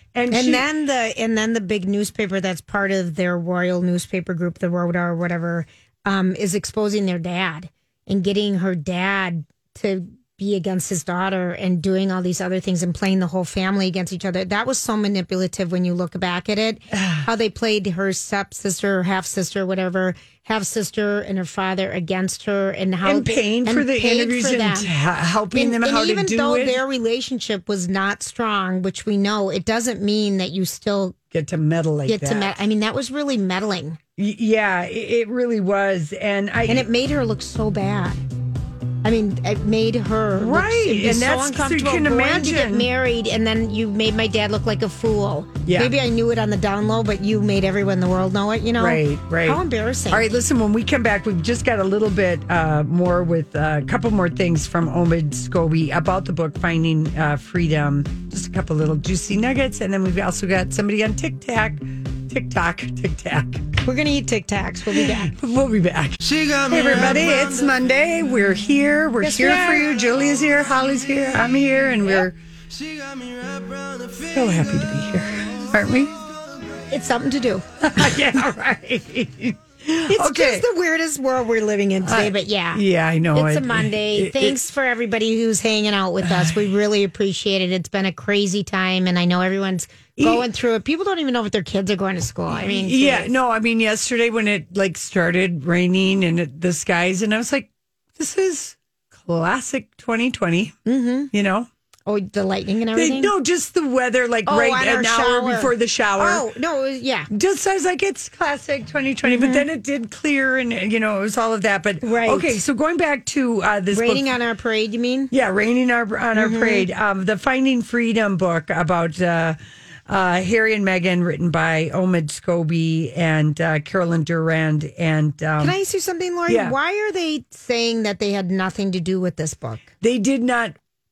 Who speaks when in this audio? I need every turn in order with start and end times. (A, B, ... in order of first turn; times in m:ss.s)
0:00.2-0:00.7 A
0:00.3-0:24.9 B
0:16.9-0:17.3 A
0:23.0-0:26.8 A
0:25.5-0:31.2 B
0:31.3-0:32.6 A
0:32.1-0:34.0 B
0:34.2-0:36.9 A
0:36.7-0:38.2 B
0:39.0-0:50.3 B
0:40.4-0:42.9 A
0:45.7-0:45.9 A
0:48.8-1:03.7 A
1:03.8-1:05.3 B
1:04.9-1:12.4 A
1:09.2-1:09.9 B
1:14.1-1:16.1 A
1:16.9-1:17.8 B
1:17.8-1:20.7 A
1:20.1-1:33.3 B
1:22.0-1:24.6 A
1:26.2-1:26.6 A
1:30.2-1:30.5 A
1:32.5-1:40.8 A
1:40.9-1:41.3 B
1:41.3-1:41.7 A
1:42.1-1:43.3 B
1:42.9-1:46.5 A
1:44.5-1:47.3 B
1:47.3-1:54.3 A
1:49.2-1:49.6 B
1:52.0-1:52.6 B
1:53.9-1:55.3 B
1:55.3-2:05.8 A
1:56.4-1:56.9 B
2:05.6-2:09.9 B
2:06.5-2:06.8 A
2:10.0-2:10.8 A